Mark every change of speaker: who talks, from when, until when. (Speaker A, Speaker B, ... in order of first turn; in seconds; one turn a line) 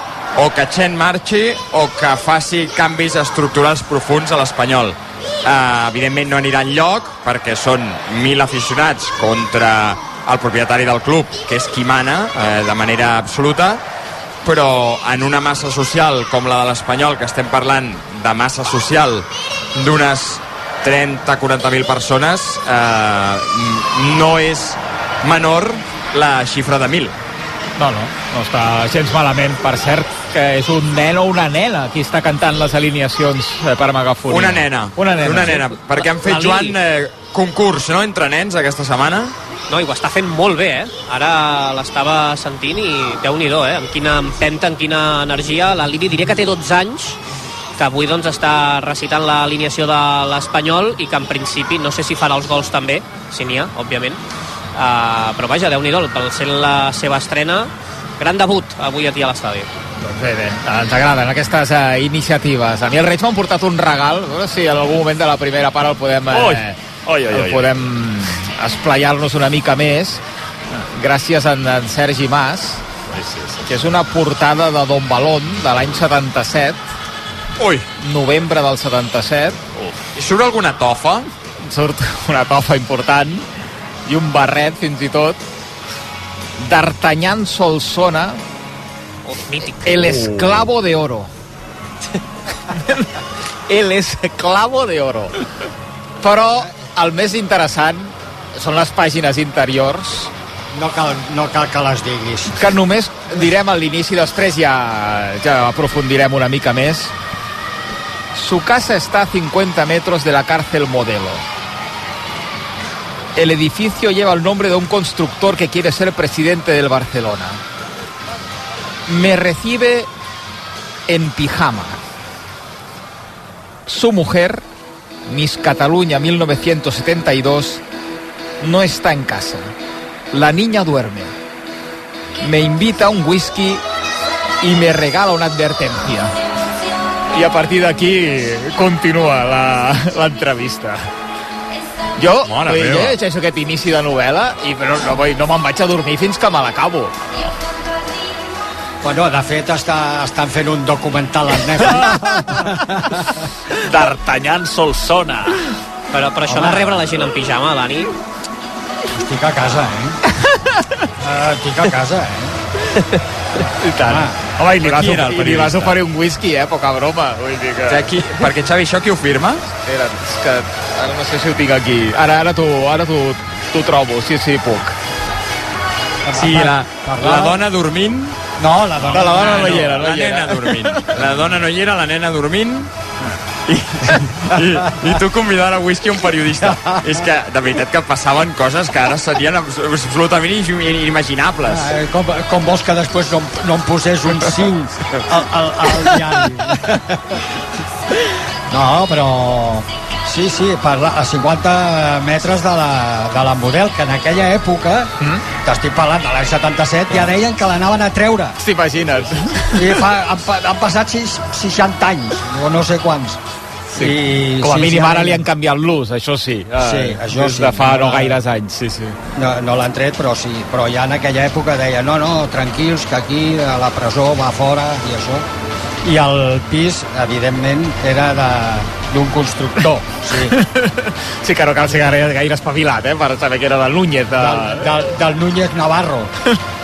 Speaker A: 0.3-13.8
Speaker A: 14.4-27.2
Speaker B: 27.8-35.7
Speaker A: 34.3-39.4
Speaker C: 36.0-36.8
Speaker C: 39.7-47.2
Speaker C: 47.8-54.2
Speaker C: 54.8-59.7
Speaker B: 60.0-66.8
Speaker D: 66.3-67.7
Speaker B: 67.3-70.2
Speaker B: 70.9-72.8
Speaker D: 73.1-73.7
Speaker B: 73.7-76.8
Speaker A: 77.6-77.9
Speaker B: 78.0-79.6
Speaker A: 80.2-81.3
Speaker B: 81.6-83.5
Speaker B: 84.1-85.4
Speaker B: 86.6-88.4
Speaker C: 89.2-90.3
Speaker B: 89.8-91.3
Speaker B: 93.7-95.4
Speaker B: 96.2-100.3
Speaker E: 100.7-102.6
Speaker B: 102.6-107.1
Speaker B: 108.3-111.5
Speaker B: 113.3-117.6
Speaker B: 119.1-120.1
Speaker B: 121.1-122.0
Speaker B: 123.9-124.6
Speaker B: 125.3-127.8
Speaker B: 128.6-129.7
Speaker B: 130.3-131.3
Speaker B: 132.4-133.8
Speaker B: 134.6-136.3
Speaker B: 137.3-141.1
Speaker B: 142.2-147.2
Speaker A: 142.4-143.2
Speaker E: 149.0-153.2
Speaker D: 153.7-155.6
Speaker C: 156.1-158.1
Speaker E: 156.5-157.2
Speaker E: 159.2-160.2
Speaker B: 160.6-160.8
Speaker E: 161.2-162.6
Speaker B: 163.8-168.1
Speaker E: 164.0-164.4
Speaker A: 164.8-166.0
Speaker A: 167.9-169.6
Speaker B: 169.8-174.9
Speaker E: 176.2-177.6
Speaker A: 176.3-178.4
Speaker E: 178.6-179.9
Speaker A: 179.0-182.9
Speaker B: 179.1-181.2
Speaker A: 183.7-191.9
Speaker E: 186.6-187.2
Speaker E: 191.7-197.4
Speaker E: 198.7-208.6
Speaker B: 208.6-210.0
Speaker E: 209.7-213.4
Speaker B: 213.9-219.2
Speaker E: 214.0-215.5
Speaker E: 216.8-218.4
Speaker E: 219.3-225.5
Speaker E: 226.0-230.6
Speaker B: 230.5-234.9
Speaker E: 234.4-236.3